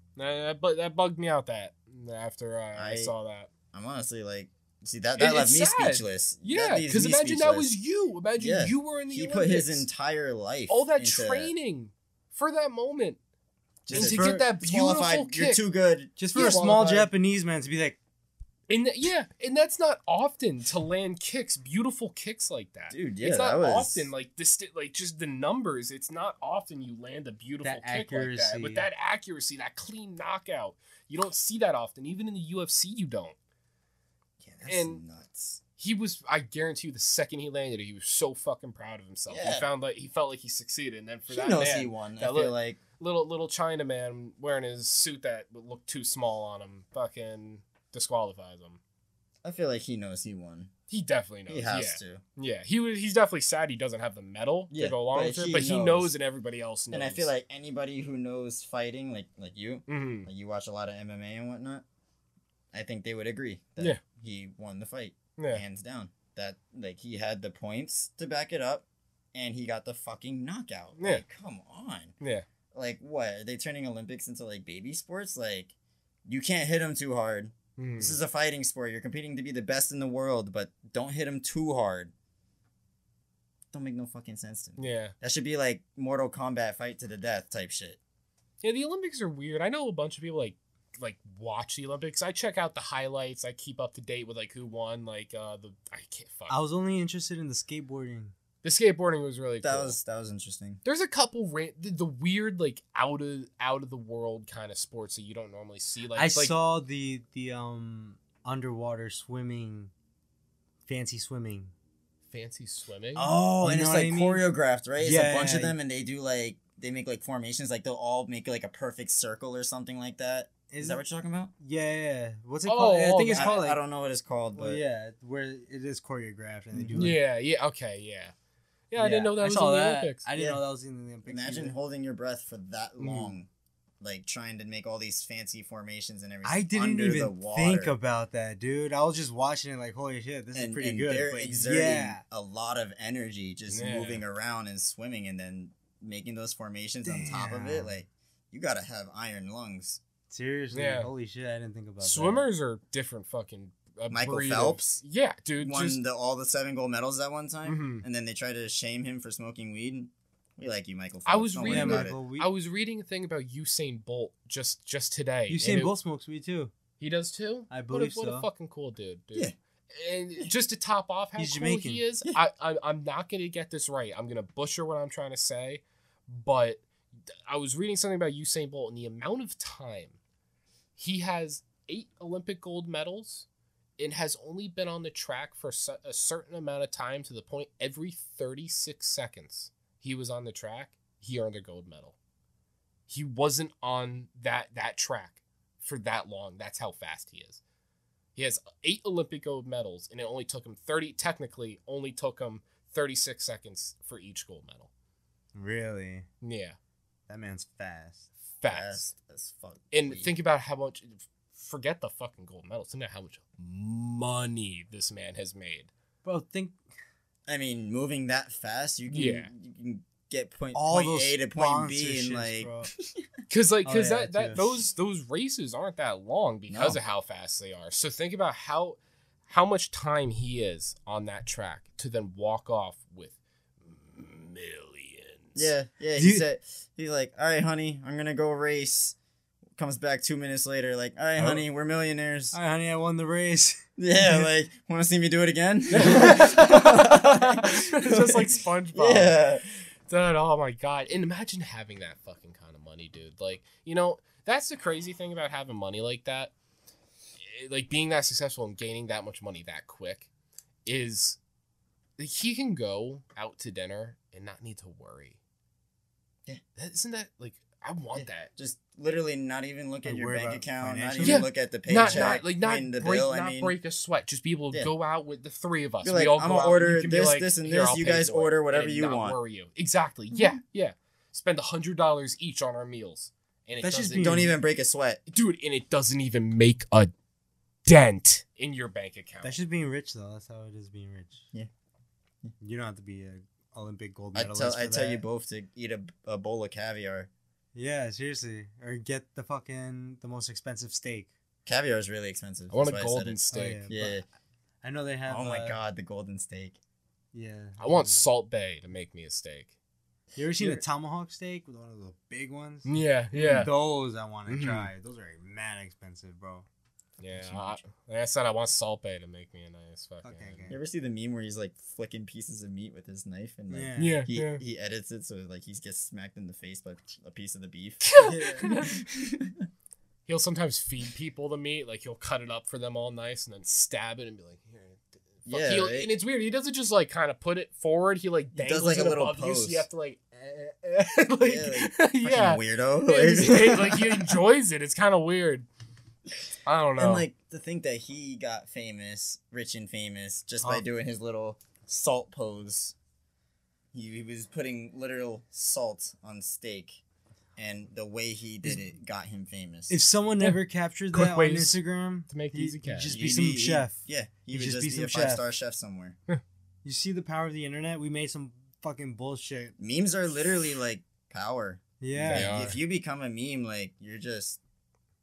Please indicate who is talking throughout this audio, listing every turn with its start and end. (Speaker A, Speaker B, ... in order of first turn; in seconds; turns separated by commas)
Speaker A: 0.2-3.5, Speaker B: 2.8-3.1, Speaker B: 3.7-7.8, Speaker A: 5.2-9.9, Speaker B: 8.4-11.5, Speaker A: 10.7-13.2, Speaker B: 13.9-17.1, Speaker C: 13.9-14.5, Speaker A: 13.9-15.7, Speaker C: 16.2-18.0, Speaker A: 16.3-16.9, Speaker A: 18.7-33.4, Speaker B: 22.9-24.1, Speaker C: 27.6-28.9, Speaker B: 34.4-35.6, Speaker A: 34.7-35.0, Speaker A: 35.8-48.8, Speaker B: 39.3-39.7, Speaker B: 41.3-42.8, Speaker B: 49.4-50.7, Speaker A: 50.9-57.3, Speaker B: 51.5-52.2, Speaker B: 54.7-56.1, Speaker B: 56.9-61.9, Speaker A: 59.9-60.3, Speaker B: 62.7-72.1, Speaker A: 65.4-65.6, Speaker A: 72.2-72.5, Speaker B: 72.7-75.7, Speaker B: 76.3-82.1, Speaker A: 77.8-78.2, Speaker B: 83.7-88.0, Speaker A: 84.8-85.1, Speaker A: 88.6-96.5, Speaker C: 96.5-98.3, Speaker A: 98.6-100.0, Speaker B: 99.6-100.8, Speaker A: 100.8-106.5, Speaker C: 106.1-109.9, Speaker C: 110.9-111.7, Speaker A: 112.3-113.3, Speaker C: 113.2-114.4, Speaker B: 113.6-121.5, Speaker C: 115.0-115.8, Speaker C: 120.7-121.0, Speaker C: 121.6-123.8, Speaker A: 122.7-123.6, Speaker B: 123.3-124.8, Speaker C: 124.6-127.2, Speaker B: 126.7-127.2, Speaker A: 127.0-128.3, Speaker A: 128.9-130.2, Speaker C: 129.0-131.8, Speaker B: 130.3-130.6, Speaker B: 131.2-133.5, Speaker A: 133.0-133.3, Speaker B: 134.0-137.9, Speaker C: 136.4-142.2, Speaker B: 140.5-150.0, Speaker A: 143.7-144.2, Speaker C: 147.1-147.9, Speaker C: 150.3-152.5, Speaker A: 150.7-151.1, Speaker A: 152.0-156.0, Speaker B: 154.1-155.0, Speaker B: 155.6-162.2, Speaker A: 157.7-158.0, Speaker A: 161.3-165.9, Speaker C: 161.7-162.5, Speaker C: 165.5-166.7, Speaker A: 167.0-176.8, Speaker C: 167.7-168.5, Speaker C: 171.4-172.0, Speaker A: 177.5-180.2, Speaker A: 181.0-183.5, Speaker A: 184.0-192.2, Speaker A: 193.1-197.6, Speaker A: 198.4-204.9, Speaker C: 205.5-206.3, Speaker A: 206.4-206.8, Speaker C: 207.3-208.3, Speaker A: 208.6-209.1, Speaker B: 208.7-210.3, Speaker A: 209.9-215.9, Speaker C: 216.2-216.8, Speaker B: 217.5-223.3, Speaker A: 219.1-219.5, Speaker C: 220.7-222.9, Speaker A: 223.5-235.7, Speaker C: 223.8-224.8, Speaker B: 226.7-227.0, Speaker B: 235.6-239.2, Speaker C: 236.2-236.4, Speaker B: 239.8-242.6, Speaker C: 241.4-241.6, Speaker C: 242.5-244.4, Speaker B: 244.0-249.7, Speaker A: 245.9-249.4, Speaker A: 250.1-256.5, Speaker A: 257.4-260.3, Speaker A: 260.9-261.4, Speaker A: 262.2-265.4, Speaker A: 266.8-268.5, Speaker B: 268.1-273.8, Speaker C: 270.1-272.4, Speaker A: 271.2-284.5, Speaker B: 276.0-279.4, Speaker B: 280.3-280.6, Speaker C: 283.8-284.5, Speaker B: 284.1-285.2, Speaker A: 285.3-287.1, Speaker A: 287.9-289.6, Speaker C: 289.4-291.5, Speaker C: 292.6-295.2, Speaker B: 294.4-297.3, Speaker C: 297.8-301.3, Speaker B: 301.7-304.2, Speaker A: 302.7-303.9, Speaker C: 303.5-304.2, Speaker C: 304.8-305.8, Speaker B: 305.3-306.8, Speaker C: 307.3-308.3, Speaker A: 307.8-309.7, Speaker C: 310.4-312.9, Speaker B: 310.6-310.8, Speaker A: 312.9-313.7, Speaker B: 313.4-313.7, Speaker C: 313.5-316.7, Speaker A: 314.5-314.9, Speaker A: 317.2-320.7, Speaker B: 317.3-317.8, Speaker C: 320.2-320.8, Speaker B: 320.7-329.7, Speaker C: 323.7-324.2, Speaker A: 324.0-324.6, Speaker A: 328.0-328.9, Speaker C: 328.2-328.6, Speaker A: 330.3-345.7, Speaker B: 335.5-336.1, Speaker B: 338.5-339.9, Speaker B: 341.4-344.4, Speaker A: 346.7-347.3, Speaker B: 347.0-352.9, Speaker B: 353.9-357.0, Speaker B: 357.6-360.0, Speaker C: 359.9-364.0, Speaker A: 361.1-363.1, Speaker B: 363.1-366.2, Speaker C: 364.5-365.4, Speaker C: 366.8-369.8, Speaker B: 369.8-374.6, Speaker C: 372.0-372.6, Speaker A: 372.3-372.8